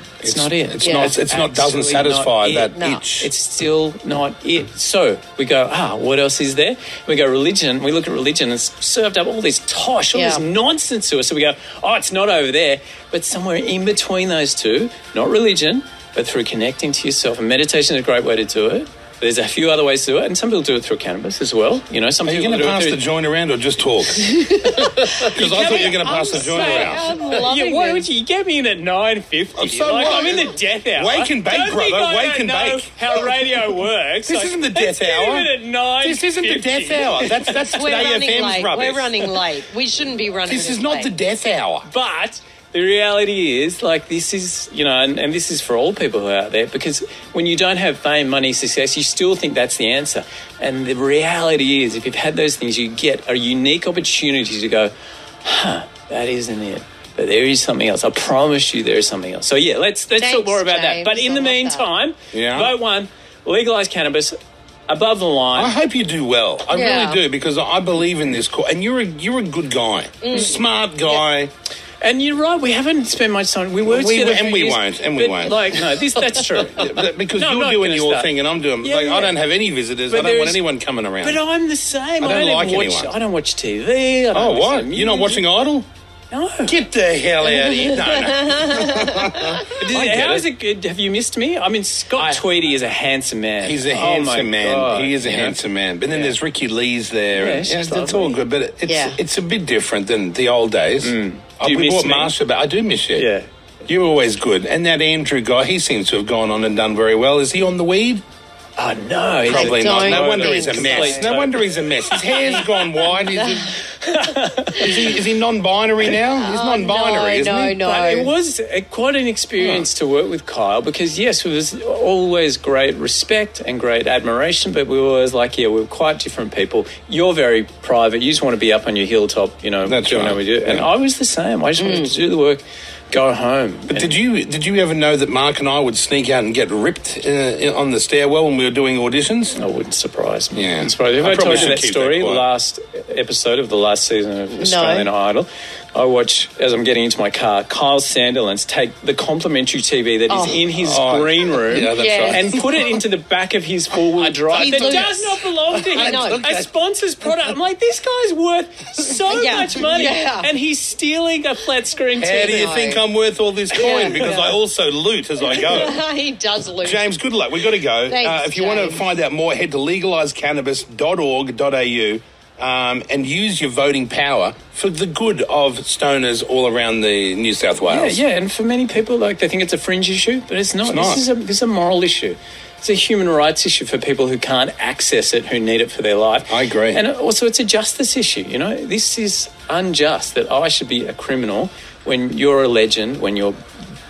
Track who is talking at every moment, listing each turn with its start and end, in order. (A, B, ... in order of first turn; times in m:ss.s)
0:00.2-0:23.0 A
0:00.2-0:03.3 B
0:00.8-0:01.1 C
0:02.7-0:03.0 C
0:10.1-0:10.4 C
0:22.2-0:24.5 B
0:24.3-0:28.1 C
0:25.2-0:38.0 A
0:25.2-0:27.0 B
0:29.6-0:39.3 B
0:37.7-0:41.1 C
0:40.4-0:41.9 B
0:41.8-0:54.9 A
0:55.4-1:04.4 A
1:00.2-1:01.9 C
1:02.3-1:02.7 B
1:04.9-1:05.7 A
1:05.5-1:11.5 B
1:06.7-1:07.2 C
1:10.2-1:10.6 C
1:12.0-1:19.4 A
1:13.8-1:15.8 B
1:16.5-1:21.4 B
1:20.1-1:20.6 A
1:21.2-1:25.4 A
1:22.2-1:23.1 B
1:24.3-1:25.9 B
1:26.3-1:26.8 A
1:26.6-1:30.4 B
1:27.5-1:29.7 C
1:29.6-1:36.4 A
1:33.6-1:43.3 B
1:37.3-1:38.4 A
1:38.8-1:39.2 C
1:41.0-1:42.3 A
1:43.2-1:43.5 A
1:43.8-1:48.2 B
1:48.8-1:55.2 A
1:49.4-1:53.8 B
1:49.5-1:51.3 C
1:53.3-1:53.6 C
1:54.7-1:57.8 B
1:56.4-1:58.3 C
1:57.8-2:14.2 A
1:59.6-1:59.8 B
2:09.8-2:10.9 B
2:11.8-2:12.1 C
2:13.9-2:19.6 B
2:19.6-2:42.8 A
2:20.5-2:22.4 B
2:24.6-2:25.1 C
2:30.3-2:30.6 C
2:30.8-2:32.5 B
2:31.9-2:32.6 C
2:34.2-2:36.7 B
2:34.5-2:36.4 C
2:39.3-2:40.5 C
2:42.2-2:46.0 B
2:42.4-2:43.0 C
2:43.7-2:44.6 C
2:45.5-2:47.0 C
2:46.8-2:58.2 B
2:48.0-2:49.1 C
2:57.9-3:13.6 A
3:00.8-3:01.2 B
3:06.5-3:07.0 B